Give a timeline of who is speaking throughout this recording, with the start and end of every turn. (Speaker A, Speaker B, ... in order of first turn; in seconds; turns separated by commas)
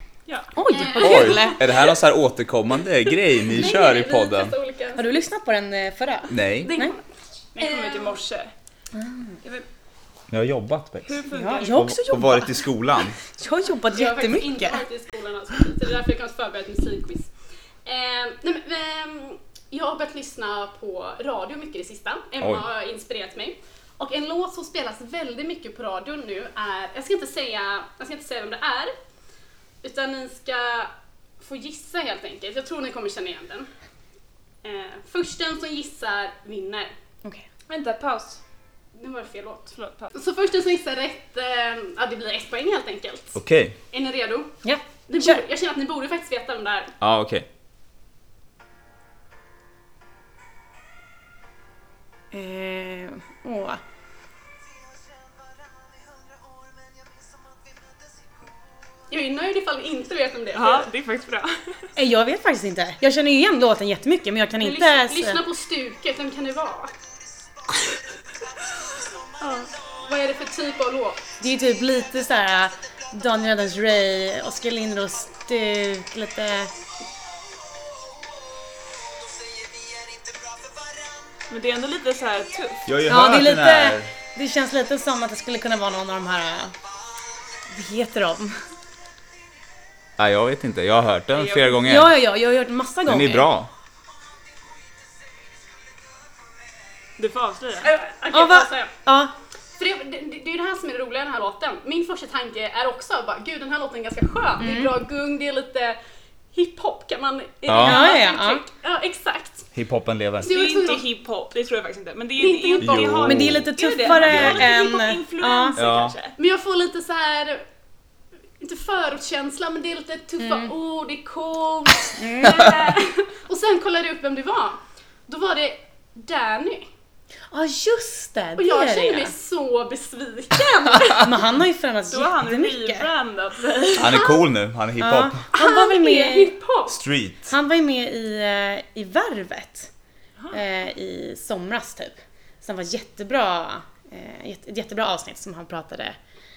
Speaker A: 0.3-0.5, Speaker B: 0.5-1.8, Speaker C: 0.7-1.8, Speaker D: 1.0-4.5, Speaker C: 3.3-5.0, Speaker B: 5.0-6.9, Speaker D: 6.3-6.7, Speaker C: 6.6-7.0, Speaker A: 7.5-8.5, Speaker C: 7.6-8.2, Speaker B: 8.9-9.4, Speaker D: 10.3-13.2, Speaker A: 11.0-11.8, Speaker B: 11.3-14.8, Speaker C: 13.9-17.3, Speaker C: 17.8-28.9, Speaker C: 29.8-33.7, Speaker C: 34.6-36.9, Speaker A: 37.7-38.4, Speaker C: 39.0-43.4, Speaker A: 39.7-40.1, Speaker D: 43.3-43.8, Speaker C: 43.9-44.5, Speaker B: 44.6-45.4, Speaker C: 45.1-46.9, Speaker D: 47.0-47.5, Speaker B: 52.3-53.8, Speaker C: 59.1-60.9, Speaker A: 60.5-61.9, Speaker B: 62.0-65.4, Speaker C: 64.6-67.0, Speaker C: 69.4-71.2, Speaker B: 71.4-76.7, Speaker A: 81.5-82.9, Speaker D: 82.9-84.1, Speaker B: 83.0-86.8, Speaker B: 87.7-88.6, Speaker D: 90.2-92.1, Speaker A: 91.3-91.7, Speaker B: 91.8-93.5, Speaker D: 93.1-93.7, Speaker A: 97.2-97.9, Speaker C: 97.8-98.9, Speaker B: 98.3-99.3, Speaker C: 99.8-106.0, Speaker B: 104.6-104.9, Speaker C: 106.5-109.7, Speaker D: 107.7-108.0, Speaker B: 107.8-108.6, Speaker D: 109.7-110.5, Speaker C: 110.4-111.0, Speaker A: 110.5-116.3, Speaker C: 112.4-113.2, Speaker D: 112.8-114.7, Speaker B: 113.2-116.0, Speaker D: 115.7-116.2, Speaker C: 116.4-117.7, Speaker C: 118.6-126.9, Speaker B: 120.4-120.7, Speaker B: 122.2-122.7, Speaker B: 127.5-129.3, Speaker C: 128.6-131.3, Speaker B: 131.2-133.1, Speaker A: 132.1-134.2, Speaker D: 134.0-135.4, Speaker C: 134.2-134.4, Speaker B: 135.0-136.5, Speaker C: 135.5-137.0, Speaker D: 136.9-137.5, Speaker B: 137.4-139.9, Speaker B: 140.5-146.2